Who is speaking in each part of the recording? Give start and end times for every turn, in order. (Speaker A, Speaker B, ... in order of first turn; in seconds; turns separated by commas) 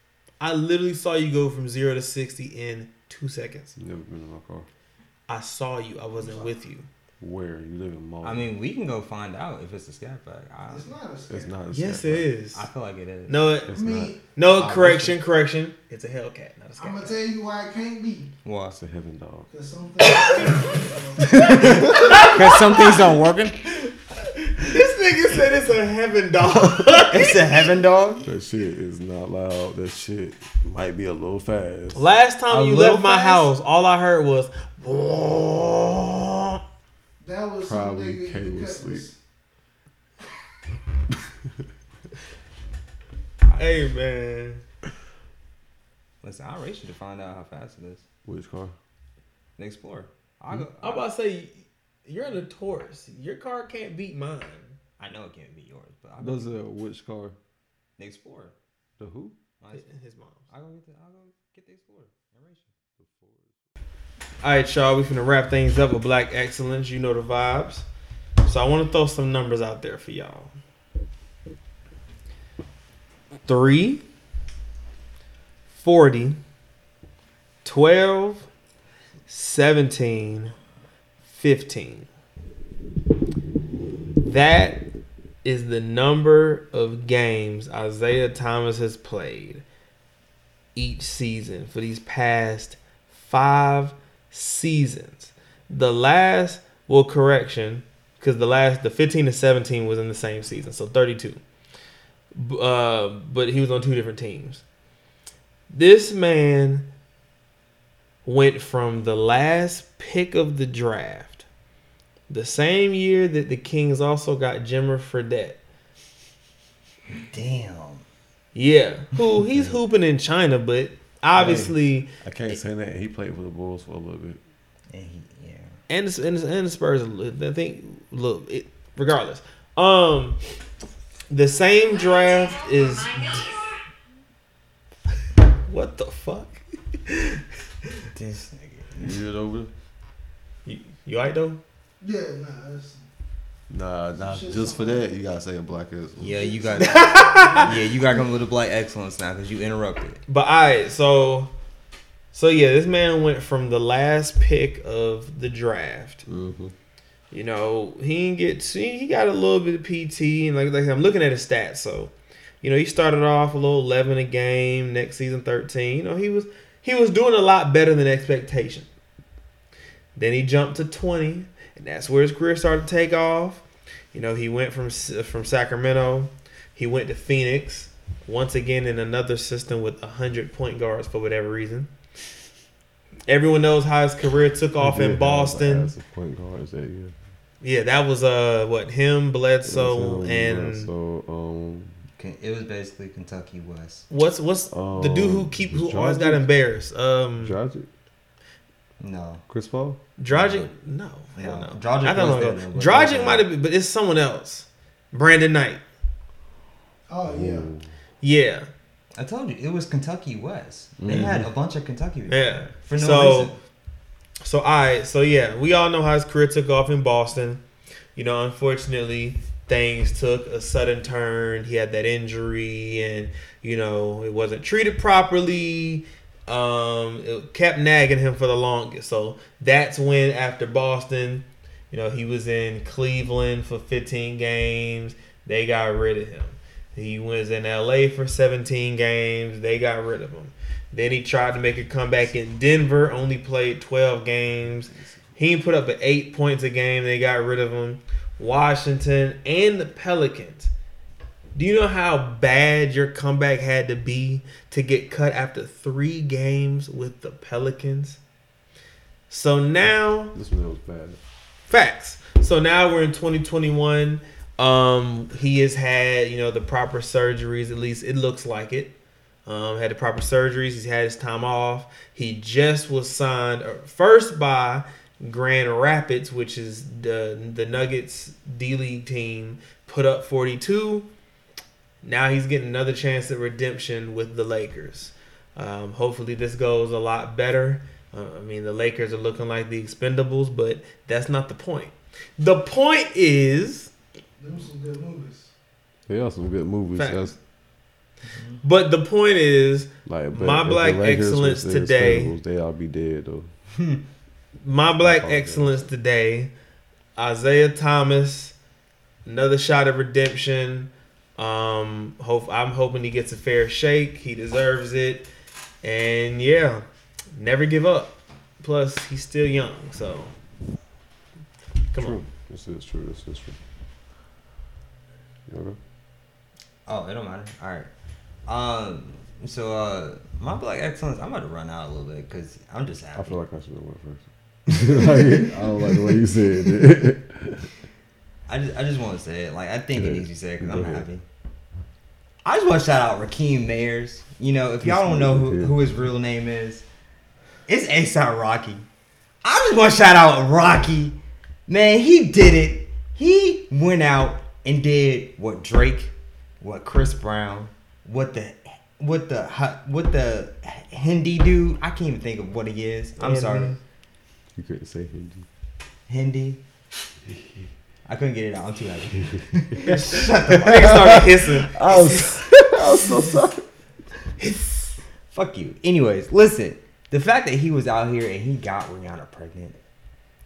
Speaker A: 0.4-3.8, Speaker B: 3.8-4.7, Speaker A: 5.3-6.9, Speaker C: 6.2-6.6, Speaker B: 7.2-8.5, Speaker D: 8.2-10.9, Speaker C: 10.7-11.5, Speaker B: 11.3-12.3, Speaker A: 11.7-12.7, Speaker D: 12.6-13.4, Speaker A: 13.3-13.8, Speaker B: 13.7-14.9, Speaker C: 13.7-14.2, Speaker A: 14.3-17.2, Speaker D: 14.6-15.1, Speaker C: 16.8-18.3, Speaker D: 18.4-18.8, Speaker B: 18.7-19.5, Speaker C: 19.5-22.9, Speaker D: 21.4-23.7, Speaker B: 21.4-22.2, Speaker A: 21.5-22.8, Speaker A: 24.6-27.6, Speaker D: 27.1-28.2, Speaker B: 28.2-32.1, Speaker A: 31.9-36.6, Speaker D: 32.5-33.5, Speaker C: 37.2-39.2, Speaker B: 37.6-39.1, Speaker A: 43.5-44.6, Speaker D: 46.2-48.1, Speaker B: 48.2-48.8, Speaker D: 49.6-51.0, Speaker A: 50.8-54.8, Speaker D: 55.0-56.5, Speaker B: 56.2-57.4, Speaker D: 58.0-58.5, Speaker B: 59.0-59.4, Speaker D: 59.6-59.9, Speaker A: 59.7-60.5, Speaker D: 60.5-62.7, Speaker B: 63.0-63.5, Speaker A: 64.4-67.9, Speaker A: 68.4-70.5, Speaker A: 73.5-74.0, Speaker A: 75.7-76.4, Speaker A: 77.6-78.5, Speaker A: 79.3-80.5, Speaker A: 81.2-82.1, Speaker A: 84.2-84.8, Speaker A: 85.4-89.6, Speaker A: 90.8-101.4, Speaker A: 102.3-104.6, Speaker A: 105.7-106.9, Speaker A: 108.2-111.5, Speaker A: 112.3-115.6, Speaker D: 117.1-118.0, Speaker A: 118.5-122.6, Speaker B: 121.4-121.7, Speaker B: 122.2-124.4, Speaker D: 124.9-125.8, Speaker A: 125.9-130.4, Speaker A: 131.3-133.7, Speaker A: 135.7-137.4, Speaker D: 138.2-139.2, Speaker B: 139.0-139.7, Speaker A: 140.7-141.6, Speaker C: 142.0-143.0, Speaker B: 143.7-146.7, Speaker C: 144.2-145.1, Speaker D: 146.2-150.2, Speaker C: 146.4-147.7, Speaker A: 146.8-147.8, Speaker A: 150.3-151.5, Speaker A: 152.3-156.2, Speaker B: 156.3-156.7, Speaker A: 157.3-168.9, Speaker A: 170.2-181.9, Speaker A: 183.3-185.9, Speaker B: 184.8-187.1, Speaker A: 187.6-190.9, Speaker B: 189.6-192.0, Speaker D: 192.2-194.1, Speaker A: 194.1-197.6, Speaker B: 194.7-196.5, Speaker B: 197.4-197.9, Speaker D: 199.0-199.4, Speaker B: 199.5-200.7, Speaker A: 200.2-205.8, Speaker D: 201.4-203.5, Speaker C: 207.1-207.7, Speaker B: 207.3-207.9, Speaker A: 208.2-208.7, Speaker D: 209.2-213.6, Speaker B: 211.0-211.5, Speaker A: 212.3-213.5, Speaker A: 214.4-217.6, Speaker A: 218.2-250.7, Speaker B: 244.7-245.4, Speaker A: 251.6-258.2, Speaker A: 259.3-260.3, Speaker B: 260.3-261.2, Speaker A: 261.7-268.9, Speaker A: 269.5-281.1, Speaker A: 282.0-293.9, Speaker C: 294.4-295.5, Speaker B: 296.1-297.4, Speaker A: 296.9-297.4, Speaker D: 298.3-298.6, Speaker A: 298.6-302.3, Speaker B: 300.1-303.5, Speaker A: 304.6-306.5, Speaker B: 305.0-305.9, Speaker A: 307.2-308.6, Speaker A: 309.3-315.3, Speaker A: 315.8-320.3, Speaker A: 321.9-322.2, Speaker B: 322.0-323.6, Speaker B: 325.5-325.8, Speaker D: 326.9-327.9, Speaker D: 328.5-333.4, Speaker B: 333.2-337.7, Speaker C: 335.0-336.3, Speaker D: 338.5-341.2, Speaker B: 339.9-341.1, Speaker D: 342.4-346.9, Speaker B: 344.8-345.8, Speaker D: 347.7-348.9, Speaker D: 349.4-363.7, Speaker A: 363.2-363.8, Speaker B: 364.6-365.5, Speaker D: 366.1-366.6, Speaker D: 368.1-372.4, Speaker A: 369.8-371.8, Speaker B: 370.7-373.6, Speaker A: 374.4-374.9, Speaker D: 375.3-379.8